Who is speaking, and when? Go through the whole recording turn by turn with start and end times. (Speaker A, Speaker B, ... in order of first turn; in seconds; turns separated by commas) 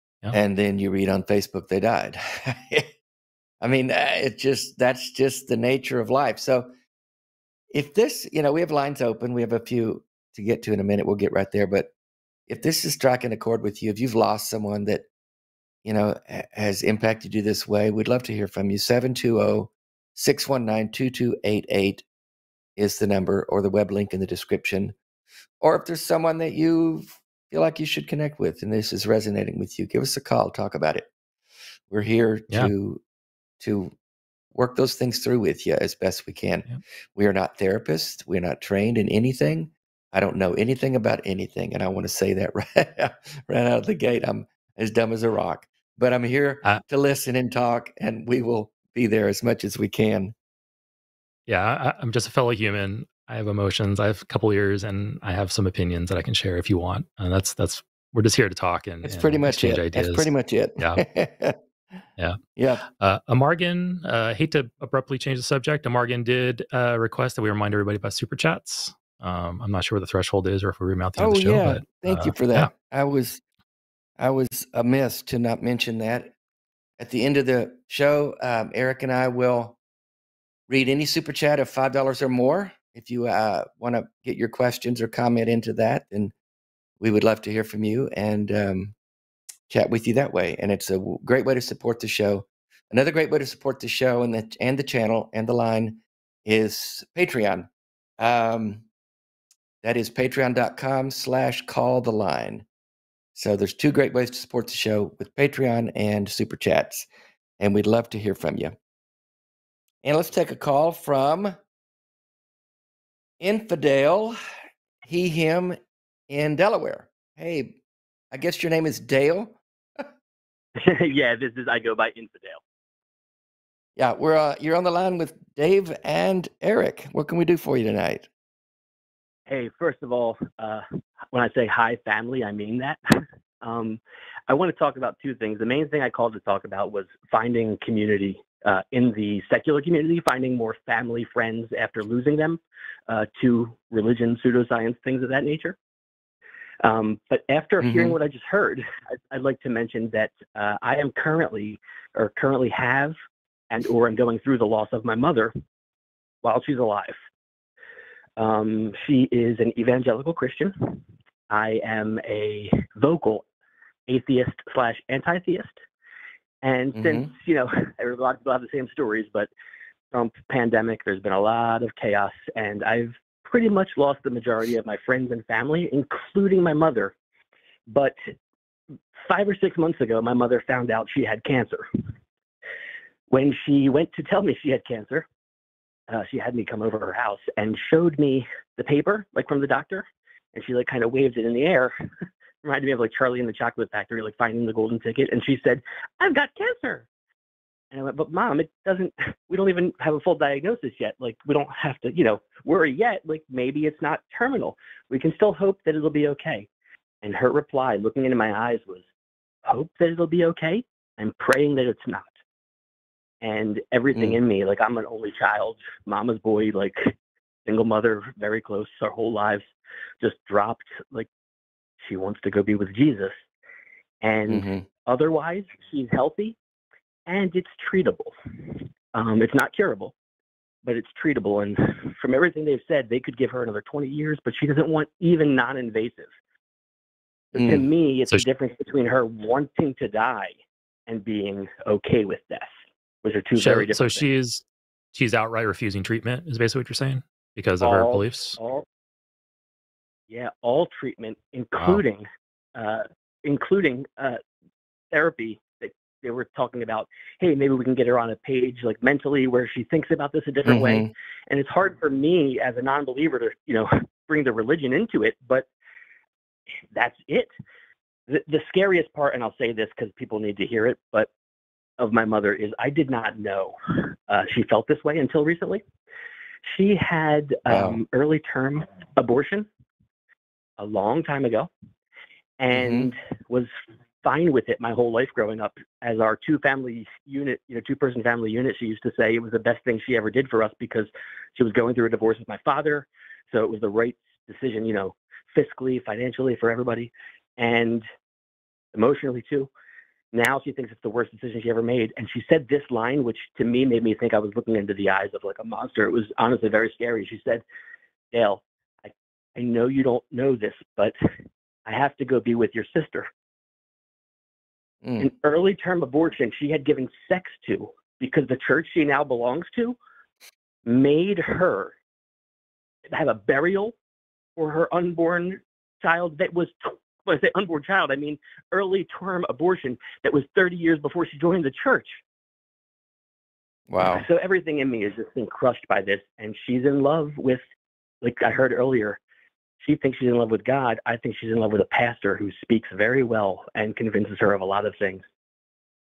Speaker A: 0.3-2.9, Speaker A: 3.6-6.7, Speaker A: 7.7-11.9, Speaker A: 12.5-15.1, Speaker A: 15.8-22.1, Speaker A: 22.8-25.0, Speaker A: 25.6-31.1, Speaker A: 31.9-33.0, Speaker A: 33.6-33.9, Speaker A: 34.5-50.3, Speaker B: 51.5-61.0, Speaker A: 59.0-61.6, Speaker A: 62.6-62.8, Speaker B: 63.0-72.7, Speaker A: 71.2-73.4, Speaker A: 74.2-76.3, Speaker A: 77.0-79.8, Speaker A: 80.7-86.3, Speaker A: 87.0-89.0, Speaker A: 89.7-98.8, Speaker A: 99.8-102.7, Speaker A: 103.3-107.1, Speaker A: 107.6-108.8, Speaker A: 110.0-111.6, Speaker A: 113.4-114.4, Speaker A: 115.0-115.8, Speaker A: 116.3-117.8, Speaker A: 118.3-120.1, Speaker C: 120.8-122.6, Speaker A: 124.0-128.3, Speaker C: 129.5-145.8, Speaker C: 146.8-153.1, Speaker A: 147.8-148.2, Speaker C: 153.7-155.5, Speaker C: 156.4-157.2, Speaker C: 158.4-163.5, Speaker C: 164.1-165.8, Speaker C: 166.6-169.5, Speaker A: 166.9-167.3, Speaker C: 170.1-177.1, Speaker C: 177.9-178.2, Speaker C: 179.2-181.9, Speaker C: 183.3-185.3, Speaker C: 186.1-191.9, Speaker C: 192.6-197.1, Speaker C: 197.9-206.7, Speaker C: 207.2-209.1, Speaker C: 209.6-212.4, Speaker C: 213.4-217.1, Speaker C: 217.7-219.7, Speaker C: 220.2-221.3, Speaker C: 222.0-223.4, Speaker C: 224.2-226.6, Speaker A: 224.5-224.9, Speaker C: 227.3-230.1, Speaker C: 230.8-236.3, Speaker C: 237.5-240.6, Speaker A: 237.6-237.9, Speaker C: 241.1-242.7, Speaker C: 243.2-244.2, Speaker B: 243.6-248.6, Speaker C: 247.8-248.8, Speaker C: 250.3-254.4, Speaker C: 255.1-265.7, Speaker A: 260.7-261.1, Speaker C: 266.9-267.5, Speaker C: 268.3-271.3, Speaker C: 272.0-273.8, Speaker C: 274.3-275.8, Speaker C: 276.6-279.7, Speaker A: 277.7-278.0, Speaker C: 280.8-281.7, Speaker C: 282.6-298.0, Speaker A: 282.7-283.1, Speaker C: 298.9-299.7, Speaker C: 300.3-307.6, Speaker C: 308.3-311.2, Speaker C: 311.9-313.3, Speaker A: 315.0-315.3, Speaker C: 315.2-320.0, Speaker C: 320.9-322.0, Speaker C: 323.1-323.9, Speaker C: 324.6-332.2, Speaker A: 333.9-334.2, Speaker C: 334.0-337.6, Speaker C: 338.2-339.2, Speaker C: 339.8-345.3